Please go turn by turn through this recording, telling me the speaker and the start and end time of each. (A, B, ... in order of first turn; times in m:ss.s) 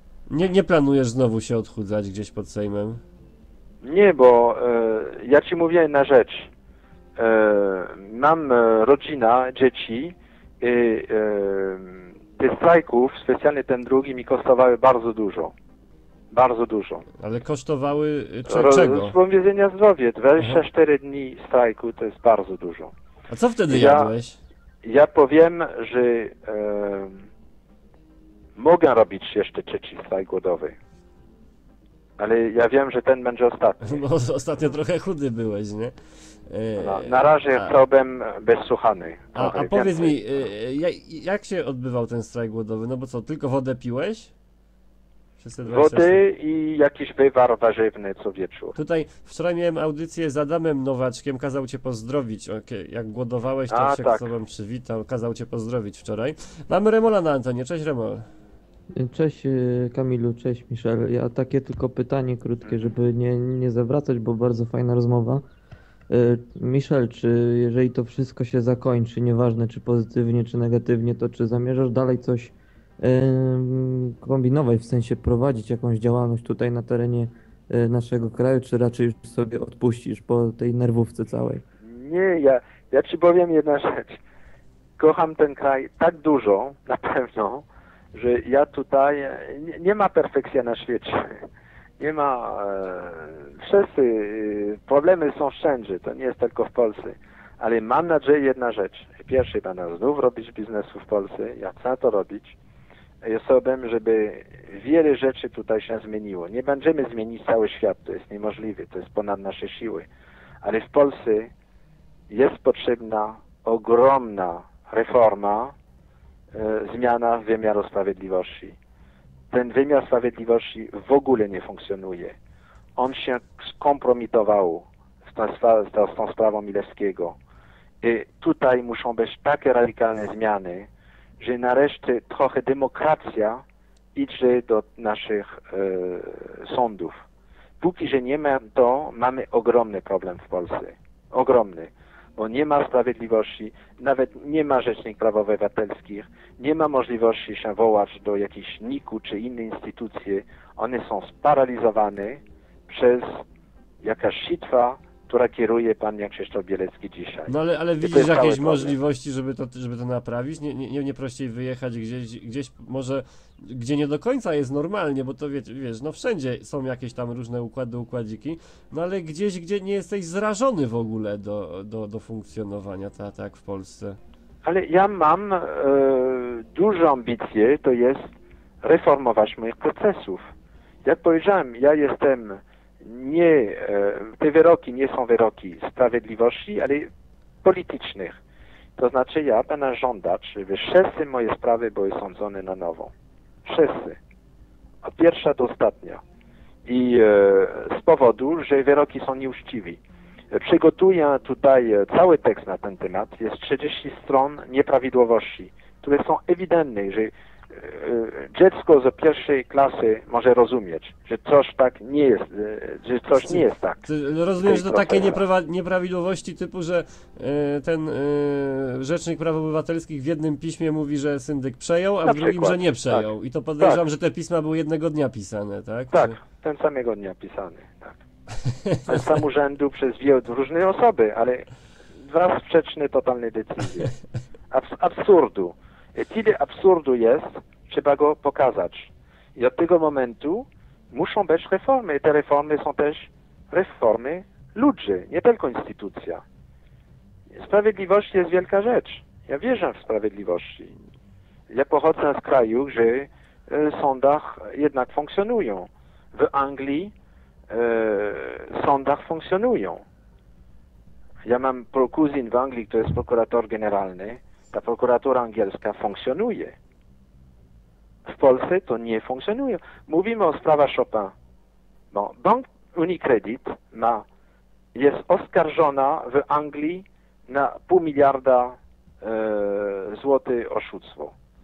0:00.3-0:03.0 A
0:03.8-0:06.5 B
0:07.2-0:15.5 B
0:16.3-0:17.0 B
0:17.2-0:19.1 A
0:18.5-0:22.9 B
0:23.3-0:24.4 A
0:23.7-0:24.1 B
0:24.8-0:27.3 B
0:28.6-0:30.8 B
0:32.2-0:34.0 B
0:33.8-0:37.7 A
0:36.8-0:40.2 B
0:39.3-0:44.3 A
0:45.4-0:46.2 A
0:45.6-0:48.8 B
0:48.8-0:58.3 A
0:53.7-0:54.3 B
0:59.0-1:05.4 C
1:02.6-1:02.9 B
1:06.1-1:21.6 C
1:21.8-1:24.2 B
1:25.0-1:31.4 B
1:32.0-1:42.6 B
1:43.2-1:50.1 B
1:50.6-1:51.5 B
1:52.3-1:55.7 B
1:56.5-1:58.8 B
1:59.5-2:02.4 B
2:03.0-2:07.4 B
2:08.0-2:10.9 B
2:11.4-2:13.6 B
2:14.1-2:17.2 B
2:17.8-2:33.4 B
2:34.0-2:39.0 B
2:37.5-2:54.2 A
2:54.6-3:00.5 B
3:01.0-3:07.1 B
3:07.6-3:08.4 B
3:09.0-3:13.1 B
3:13.6-3:14.2 B
3:15.0-3:16.2 B
3:16.8-3:20.0 B
3:20.5-3:35.4 B
3:33.4-3:46.3 A
3:42.2-3:43.3 B
3:46.1-3:48.2 B
3:48.6-3:49.2 A
3:49.0-3:54.1 B
3:54.7-4:06.4 B
4:07.5-4:11.0 B
4:11.7-4:17.1 B
4:17.7-4:20.0 B
4:21.4-4:26.8 B
4:28.2-4:31.3 B
4:32.1-4:34.2 B
4:34.9-4:41.3 B